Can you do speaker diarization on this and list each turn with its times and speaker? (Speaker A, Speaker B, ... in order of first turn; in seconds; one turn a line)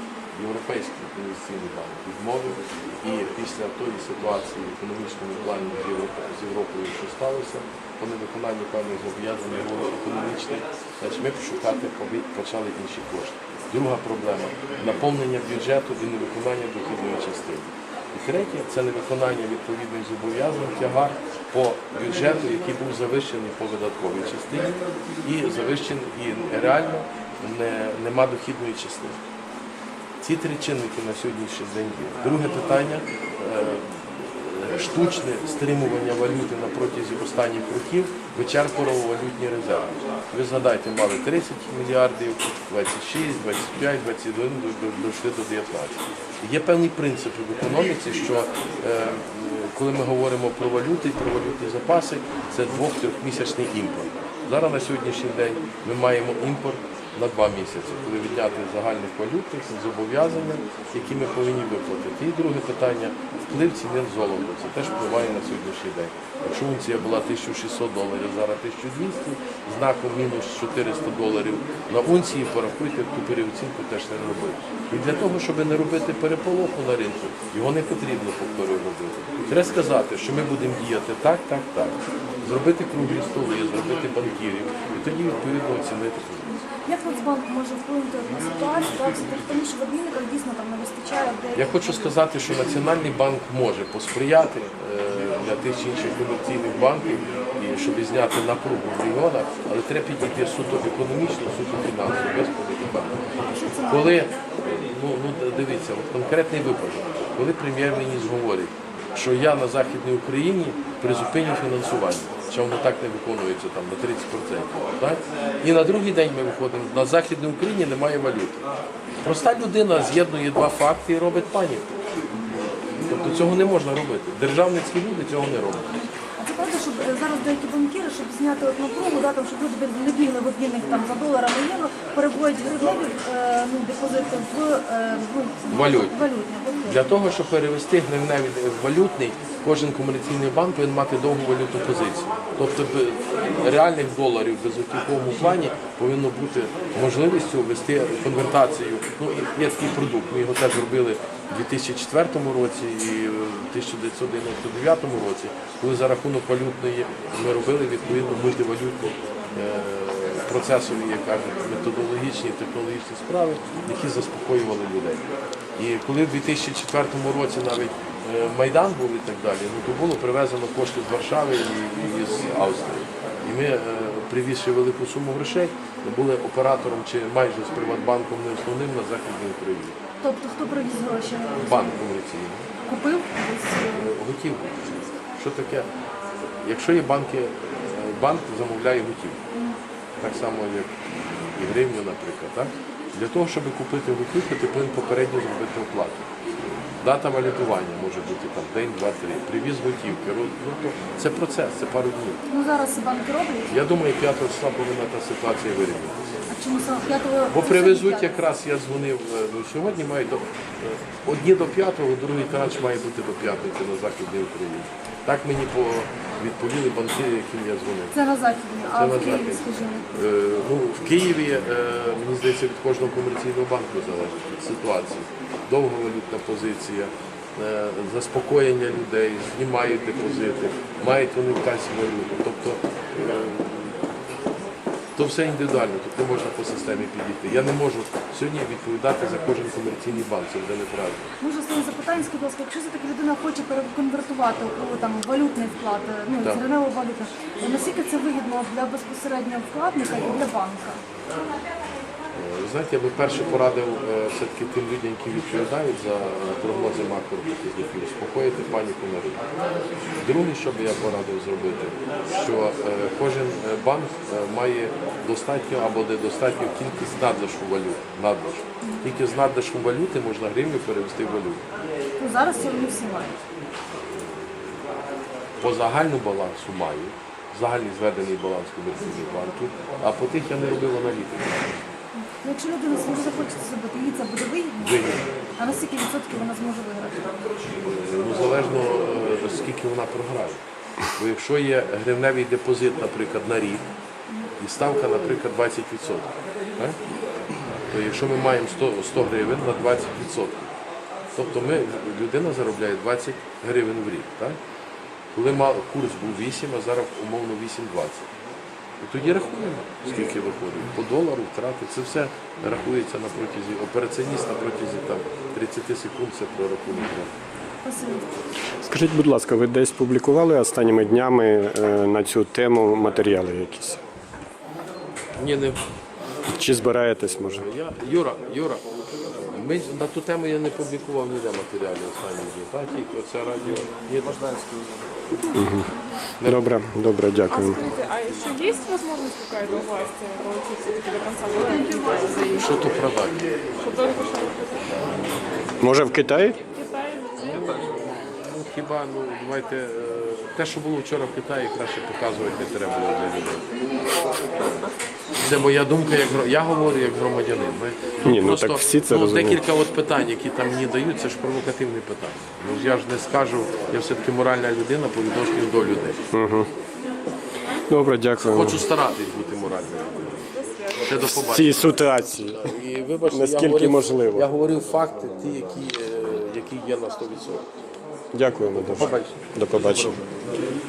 Speaker A: 0.3-29.2
Speaker A: 30.2-86.6
Speaker B: 86.7-92.1
Speaker A: 91.5-103.2
Speaker B: 103.5-104.2
Speaker A: 103.8-118.6
Speaker A: 119.2-121.9
Speaker A: 123.0-126.0
Speaker B: 126.4-137.0
Speaker A: 135.7-136.2
Speaker A: 136.9-165.2
Speaker A: 165.8-180.0
Speaker B: 180.2-182.0
Speaker A: 181.6-182.7
Speaker B: 182.8-184.1
Speaker A: 183.9-185.9
Speaker A: 186.6-189.4
Speaker A: 190.2-190.9
Speaker A: 191.6-196.3
Speaker A: 197.0-202.4
Speaker B: 202.5-203.7
Speaker A: 203.7-206.2
Speaker B: 206.5-208.4
Speaker A: 207.5-218.2
Speaker B: 218.1-220.1
Speaker A: 218.8-234.0
Speaker A: 235.2-241.3
Speaker B: 241.4-251.0
Speaker A: 252.4-259.4
Speaker A: 260.2-271.6
Speaker B: 268.8-269.1
Speaker B: 272.2-273.4
Speaker A: 274.0-274.9
Speaker A: 275.6-281.8
Speaker B: 282.2-287.3
Speaker A: 284.8-285.2
Speaker A: 287.8-290.6
Speaker A: 291.2-293.9
Speaker A: 294.6-297.0
Speaker A: 297.9-300.7
Speaker A: 301.4-304.6
Speaker A: 305.4-308.3
Speaker A: 309.0-317.3
Speaker B: 317.8-318.2
Speaker C: 318.8-324.0
Speaker A: 325.4-325.8
Speaker C: 326.5-327.6
Speaker A: 327.3-334.4
Speaker C: 335.5-335.9
Speaker C: 336.4-337.8
Speaker D: 337.5-342.8
Speaker A: 342.5-343.4
Speaker D: 343.8-345.1
Speaker C: 345.8-346.6
Speaker D: 346.6-348.1
Speaker A: 348.4-353.7
Speaker A: 355.4-366.2
Speaker C: 358.2-359.6
Speaker C: 366.3-366.7
Speaker C: 367.9-368.9
Speaker A: 368.4-370.5
Speaker D: 370.5-371.8
Speaker A: 371.0-377.6
Speaker C: 371.2-372.7
Speaker C: 373.3-374.5
Speaker C: 378.3-380.2
Speaker A: 378.7-380.2